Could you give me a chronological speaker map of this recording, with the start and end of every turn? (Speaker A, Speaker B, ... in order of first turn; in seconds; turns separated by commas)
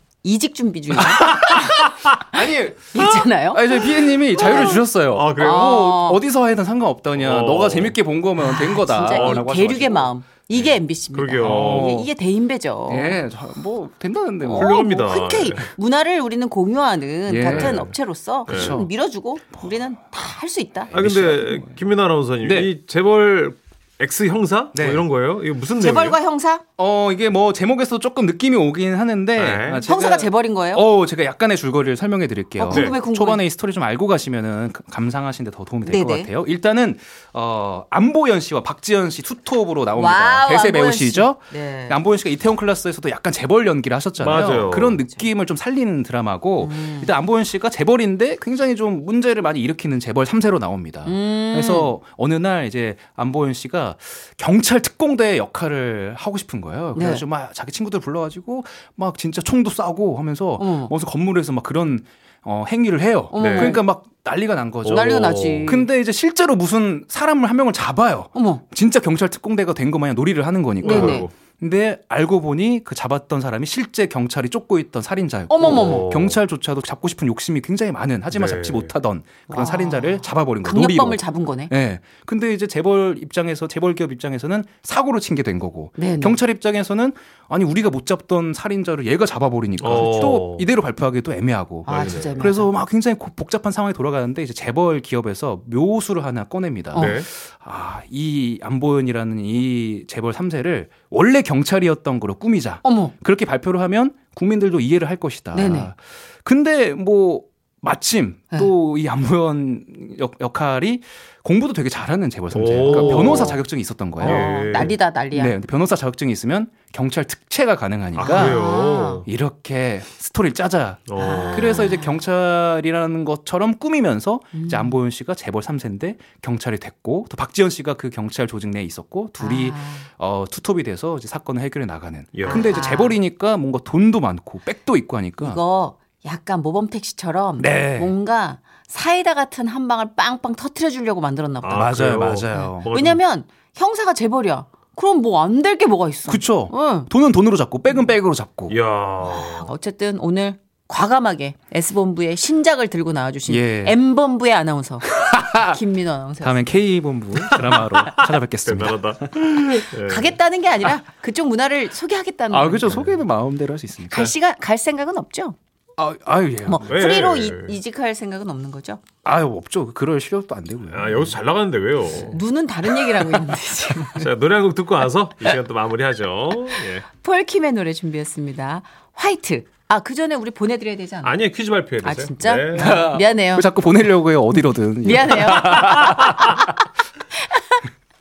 Speaker A: 0.2-2.4, Speaker B: 1.0-10.1, Speaker A: 2.9-4.8, Speaker C: 4.4-5.8, Speaker A: 5.3-6.2, Speaker C: 7.1-8.0, Speaker A: 8.4-13.2, Speaker C: 9.0-11.9, Speaker B: 11.4-12.1, Speaker B: 12.9-14.8, Speaker A: 14.4-20.9, Speaker C: 14.5-15.7, Speaker B: 17.3-17.9, Speaker C: 17.5-17.9, Speaker B: 18.4-18.9, Speaker C: 18.5-18.8, Speaker B: 20.9-21.8, Speaker C: 20.9-26.2, Speaker B: 22.4-22.7, Speaker B: 24.7-25.0, Speaker A: 25.8-26.6, Speaker B: 26.8-135.6, Speaker C: 29.3-29.9, Speaker A: 29.8-30.9, Speaker A: 32.6-33.4, Speaker C: 32.7-32.9, Speaker A: 35.8-36.3, Speaker A: 39.9-42.0, Speaker C: 44.2-45.0, Speaker A: 46.6-47.1, Speaker A: 51.0-51.9, Speaker A: 56.9-57.2, Speaker A: 60.6-60.9, Speaker A: 63.3-63.8, Speaker C: 63.4-63.8, Speaker A: 64.8-65.9, Speaker C: 65.1-65.8, Speaker A: 68.3-68.6, Speaker C: 70.8-71.3, Speaker A: 70.8-71.3, Speaker A: 75.5-76.1, Speaker C: 75.6-76.4, Speaker C: 78.3-78.9, Speaker A: 79.5-81.7, Speaker A: 86.0-86.4, Speaker C: 89.8-90.7, Speaker C: 91.8-92.4, Speaker A: 91.8-92.7, Speaker C: 96.9-97.3, Speaker A: 96.9-97.2, Speaker A: 102.8-103.1, Speaker A: 105.5-105.9, Speaker C: 112.5-113.6, Speaker A: 112.8-113.6, Speaker C: 114.2-114.9, Speaker A: 114.2-115.5, Speaker C: 118.1-119.2, Speaker A: 118.2-119.2, Speaker C: 121.1-121.8, Speaker A: 121.2-122.2, Speaker A: 124.5-125.0, Speaker A: 129.4-130.1, Speaker C: 132.3-132.7, Speaker A: 132.4-133.2, Speaker A: 135.4-141.9, Speaker B: 137.6-138.1, Speaker C: 141.6-143.2, Speaker B: 141.7-142.9, Speaker A: 142.5-147.1, Speaker B: 146.2-148.7, Speaker C: 148.7-149.7, Speaker A: 149.2-156.8, Speaker B: 153.4-154.0, Speaker B: 155.2-155.7, Speaker B: 156.4-159.3, Speaker C: 157.4-160.3, Speaker A: 160.0-163.2, Speaker B: 162.5-164.3, Speaker A: 164.1-165.6, Speaker B: 166.0-167.1, Speaker A: 166.6-169.0, Speaker C: 166.9-167.8, Speaker B: 169.2-171.3, Speaker C: 170.9-172.4, Speaker A: 172.3-174.2, Speaker C: 174.2-177.1, Speaker A: 177.2-181.4, Speaker C: 181.2-183.0, Speaker A: 182.0-183.8, Speaker B: 182.7-186.6, Speaker A: 185.0-186.6, Speaker C: 185.8-186.4